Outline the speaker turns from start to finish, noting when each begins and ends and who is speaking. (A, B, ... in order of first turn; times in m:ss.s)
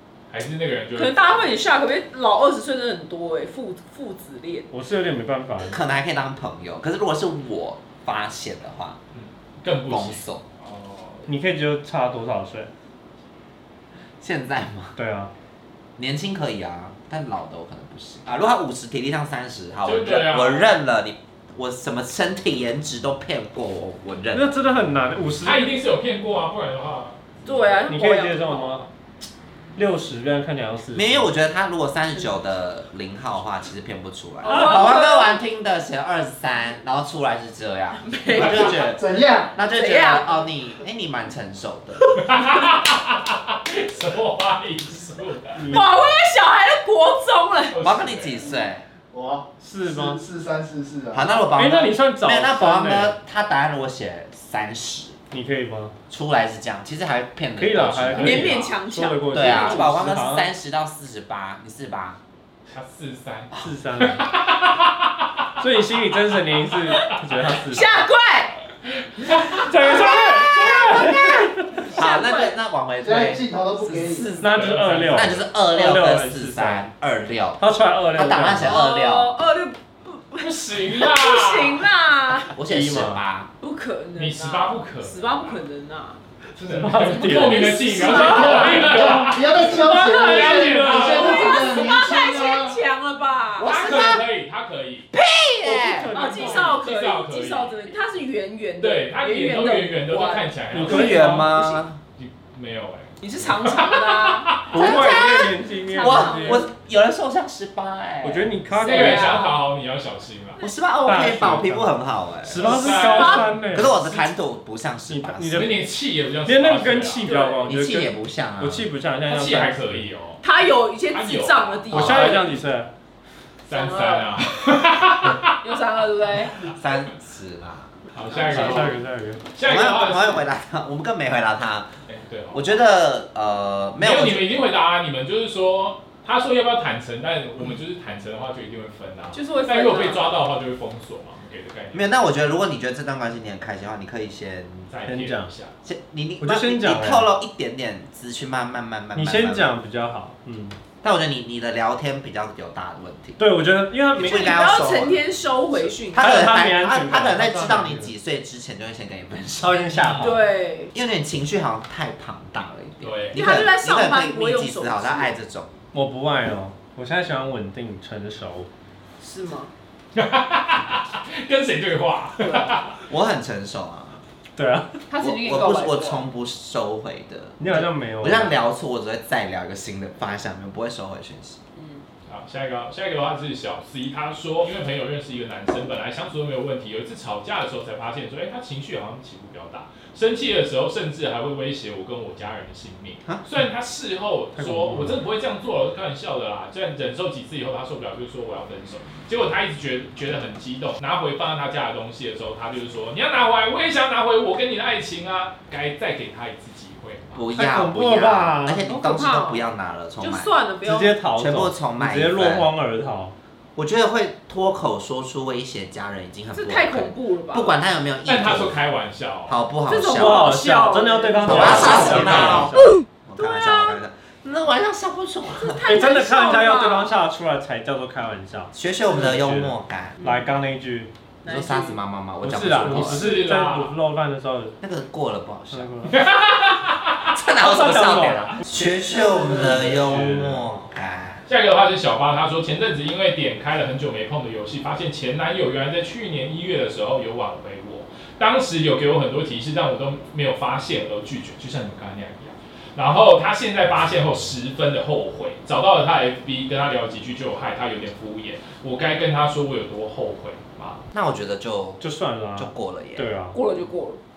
0:00.3-0:01.4 A
0:00.9-0:04.7 B
0:04.7-0:05.8 C
0:05.6-0:09.0 D
0:09.1-0:11.3 A
0:09.8-0:10.4 D
0:11.3-0:12.7 C
0:14.2-0:15.0 D
0:15.0-0:15.3 C
0:16.0-0:24.5 D
0:19.8-0:20.7 A
0:24.3-0:25.8 C
0:25.4-0:27.4 A
0:27.4-0:28.9 B
0:27.9-0:28.9 C
0:29.8-0:31.3 C
0:30.9-0:39.0 D
0:34.4-0:35.3 B
0:38.0-0:38.9 B
0:38.9-0:39.6 E
0:39.6-0:42.1 D
0:39.6-0:40.5 B
0:42.1-0:45.6 A
0:45.5-0:45.9 C
0:45.7-0:47.8 B
0:47.7-0:48.5 A
0:47.8-0:48.8 D
0:49.1-0:51.2 E
0:49.6-0:50.2 C
0:51.1-0:55.2 D
0:51.5-0:53.2 C
0:55.3-0:56.0 C
0:56.1-0:58.7 D
0:57.6-1:00.5 C
0:58.2-0:59.9 B
0:59.3-1:02.2 D
1:02.7-1:05.1 A
1:03.6-1:04.3 C
1:05.6-1:07.9 C
1:07.6-1:08.6 B
1:09.1-1:09.7 A
1:09.5-1:11.9 C
1:09.9-1:12.6 B
1:10.4-1:19.3 D
1:13.0-1:14.3 E
1:14.4-1:16.8 C
1:14.5-1:15.4 A
1:17.6-1:18.8 C
1:18.6-1:22.6 B
1:20.4-1:21.9 A
1:22.6-1:23.5 D
1:22.7-1:23.2 C
1:23.6-1:26.2 B
1:24.2-1:25.6 A
1:26.6-1:31.8 A
1:26.6-1:28.2 C
1:27.0-1:29.2 B
1:28.8-1:29.2 C
1:29.2-1:32.8 E
1:30.3-1:31.3 C
1:30.8-1:33.8 B
1:33.6-1:34.2 D
1:33.6-1:35.1 A
1:35.1-1:36.1 D
1:35.6-1:36.8 C
1:36.1-1:41.8 B
1:36.3-1:37.8 A
1:38.8-1:41.2 A
1:40.7-1:41.5 C
1:40.8-1:42.0 D
1:42.2-1:44.7 A
1:43.2-1:46.7 B
1:44.7-1:46.6 C
1:44.7-1:48.6 D
1:48.2-1:49.4 C
1:48.8-1:49.6 B
1:48.8-1:50.6 A
1:50.6-1:53.0 D
1:51.0-1:54.0 C
1:52.6-1:54.3 A
1:52.8-1:53.5 B
1:53.5-1:55.7 D
1:55.1-1:55.8 C
1:55.5-1:57.3 A
1:56.4-2:00.1 C
1:57.3-1:57.8 B
1:57.7-1:58.9 D
1:59.3-2:00.4 A
2:00.4-2:02.5 B
2:01.1-2:02.5 A
2:01.9-2:02.9 C
2:03.7-2:05.6 A
2:03.7-2:04.4 B
2:05.6-2:06.6 B
2:06.7-2:08.0 D
2:08.1-2:09.0 A
2:08.5-2:09.4 C
2:09.5-2:10.5 A
2:09.6-2:11.9 D
2:12.1-2:12.8 A
2:12.5-2:14.5 D
2:14.0-2:22.1 A
2:19.3-2:20.3 B
2:21.9-2:24.9 D
2:24.9-2:25.7 A
2:25.0-2:25.5 C
2:25.8-2:29.7 D
2:26.4-2:27.3 C
2:29.1-2:30.8 C
2:31.0-2:33.4 D
2:33.4-2:34.5 C
2:34.2-2:35.2 D
2:34.2-2:36.4 B
2:36.1-2:40.3 D
2:36.1-2:38.1 C
2:39.6-2:40.3 C
2:39.9-2:40.4 A
2:40.2-2:40.9 B
2:40.9-2:45.7 D
2:43.0-2:43.4 A
2:43.3-2:45.3 B
2:45.9-2:48.7 C
2:49.2-2:49.7 B
2:50.2-2:53.0 A
2:52.4-2:52.8 B
2:53.1-2:54.2 D
2:54.6-2:55.0 C
2:55.1-2:56.2 B
2:55.2-3:01.6 D
2:57.6-2:58.6 C
3:01.8-3:02.0 B
3:02.3-3:27.4 A
3:14.6-3:15.2 C
3:27.3-3:30.5 D
3:27.5-3:28.8 C
3:28.8-3:29.7 B
3:30.2-3:31.2 B
3:30.8-3:33.3 C
3:31.3-3:32.7 D
3:33.8-3:38.8 D
3:36.5-3:37.7 B
3:38.2-3:39.6 A
3:39.5-3:40.5 D
3:39.9-3:42.7 B
3:40.2-3:43.0 C
3:41.4-3:45.8 D
3:41.5-3:42.6 A
3:43.4-3:44.0 B
3:45.6-3:47.1 B
3:45.9-3:51.1 C
3:48.7-3:50.2 D
3:51.4-3:52.0 B
3:51.5-3:53.3 D
3:52.4-3:54.8 C
3:52.8-3:54.0 A
3:54.8-3:55.9 D
3:55.7-3:56.2 C
3:56.1-3:57.3 A
3:57.3-4:01.4 D
3:57.6-3:58.6 C
3:59.2-4:00.7 C
4:01.5-4:21.0 A
4:21.1-4:22.0 D
4:22.0-4:23.6 C
4:22.6-4:23.3 D
4:23.5-4:24.2 B